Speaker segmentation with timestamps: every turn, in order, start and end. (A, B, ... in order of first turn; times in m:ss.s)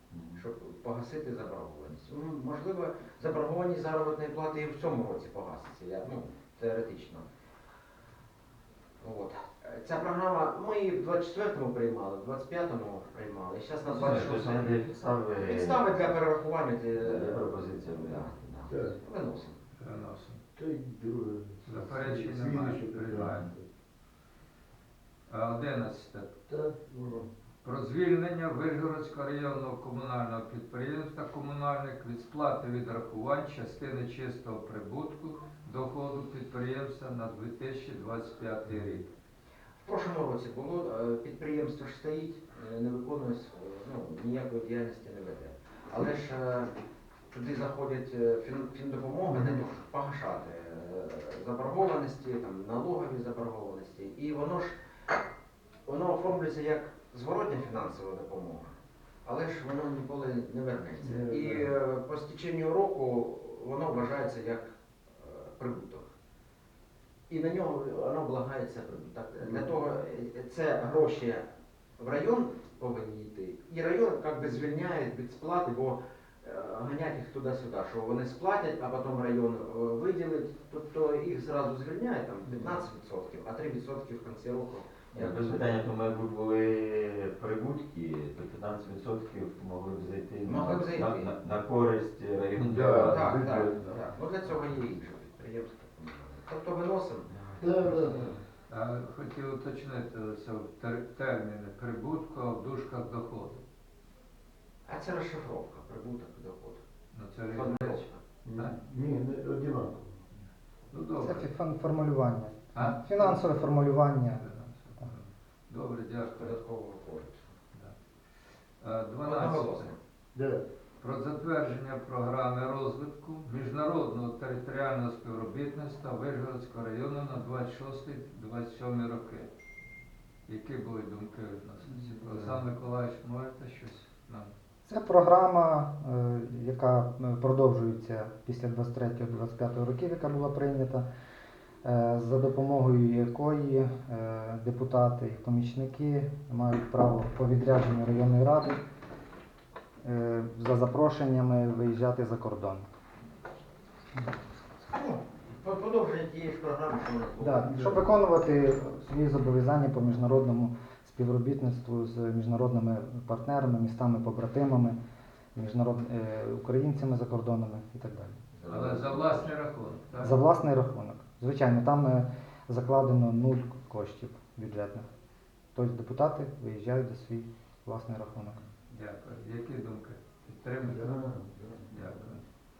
0:00.1-0:00.4 A
0:00.4-0:07.3 B
0:09.0-0:14.7 B
0:13.8-0:16.2 A
0:15.4-0:19.6 B
0:16.9-0:18.4 A
0:18.7-0:19.0 C
0:19.8-0:20.4 D
0:20.6-0:23.6 C
0:21.6-0:23.5 D
0:25.3-0:26.3 D
0:26.5-0:27.3 C
0:27.6-0:39.0 D
0:39.8-0:46.8 B
0:47.3-0:54.8 B
0:55.8-0:58.7 B
0:59.2-1:06.1 B
1:01.0-1:01.8 C
1:07.3-1:11.4 B
1:09.4-1:09.8 C
1:12.0-1:25.7 B
1:25.1-1:33.4 A
1:30.4-1:31.3 B
1:32.6-1:34.0 C
1:32.9-1:38.3 B
1:37.3-1:38.3 A
1:37.6-1:38.3 C
1:38.7-1:43.6 D
1:44.8-1:46.8 B
1:47.1-1:48.0 D
1:47.5-1:48.2 B
1:48.4-1:50.2 C
1:50.9-1:51.5 D
1:51.2-1:54.4 E
1:52.7-1:53.6 D
1:54.3-1:56.6 D
1:56.4-1:57.5 B
1:58.8-1:59.9 D
1:59.2-2:00.0 B
2:00.3-2:00.6 C
2:01.0-2:09.5 D
2:10.5-2:14.5 D
2:14.8-2:21.0 E
2:21.8-2:28.8 E
2:30.0-2:32.9 E
2:34.8-2:37.9 B
2:37.4-2:45.0 E
2:37.7-2:38.0 C
2:45.5-2:48.4 E
2:48.5-2:49.5 A
2:48.7-2:50.5 D
2:50.2-2:55.1 E
2:55.7-2:58.6 E
2:58.9-3:01.2 D
3:00.8-3:02.4 C
3:01.9-3:02.4 D